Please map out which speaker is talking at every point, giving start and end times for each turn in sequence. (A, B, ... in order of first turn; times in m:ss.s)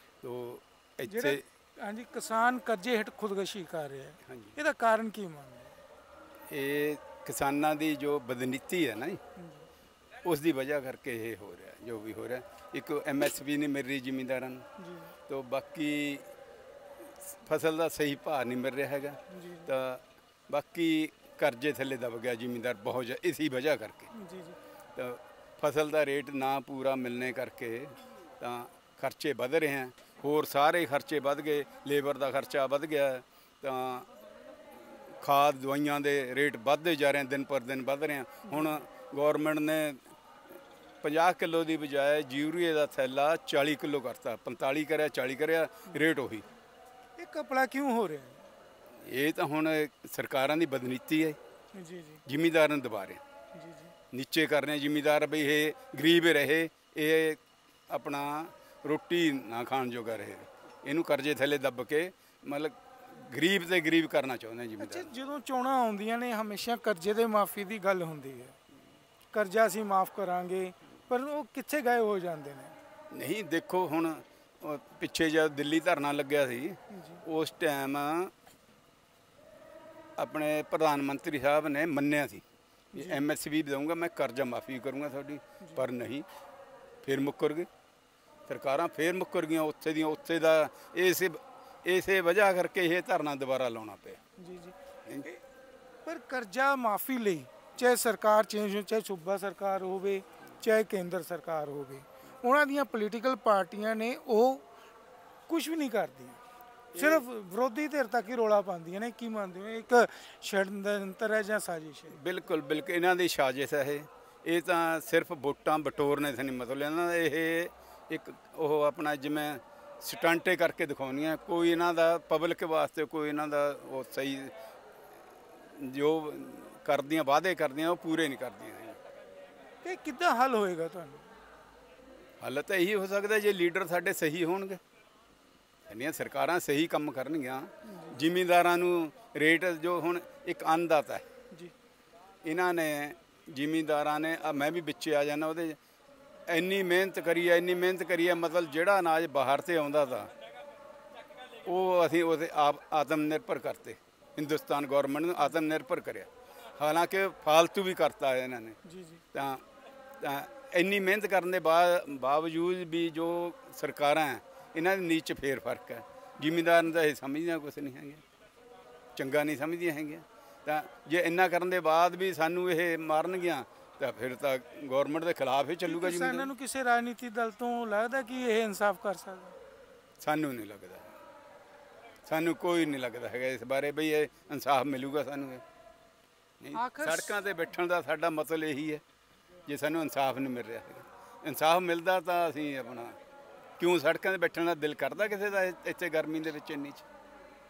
0:00.2-0:01.4 A
0:01.1-0:05.8 B
0:04.3-0:04.6 A
0:06.5-0:09.2 A
0:09.4-0:09.6 B
0:10.2-0:14.6 A
0:14.8-0:15.1 B
0:15.3-0:16.2 A
0:17.2-0:24.1 A
0:19.3-0:19.7 B
0:24.1-0:24.6 B
0:25.0-0:34.1 A
0:35.2-0:40.0 A
0:38.5-0:38.8 B
0:41.0-0:46.4 A
0:47.2-0:48.4 B
0:49.1-0:51.4 A
0:51.8-0:52.2 B
0:52.3-0:53.2 A
0:53.5-0:53.9 B
0:54.1-1:05.1 A
1:04.8-1:08.6 B
1:09.3-1:12.8 B
1:13.1-1:18.3 A
1:16.9-1:17.2 B
1:20.2-1:22.4 A
1:22.9-1:23.2 B
1:22.9-1:26.3 A
1:27.0-1:27.7 A
1:28.5-1:34.2 A
1:34.4-1:35.4 B
1:36.1-1:44.6 B
1:45.5-1:46.4 B
1:46.9-1:47.2 A
1:47.0-1:52.2 B
1:52.1-2:04.5 A
2:05.8-2:09.0 A
2:09.8-2:11.3 B
2:12.4-2:14.8 A
2:15.9-2:21.2 A
2:17.9-2:18.2 B
2:22.4-2:25.8 A
2:26.5-2:30.3 A
2:31.6-2:38.8 A
2:38.8-2:39.2 B
2:39.3-2:39.6 A
2:40.2-2:48.2 A
2:49.2-2:56.5 A
2:55.9-2:59.6 B
3:00.2-3:01.1 A
3:02.3-3:05.6 A
3:06.6-3:09.0 A
3:06.7-3:07.4 B
3:09.7-3:13.2 A
3:13.8-3:17.0 A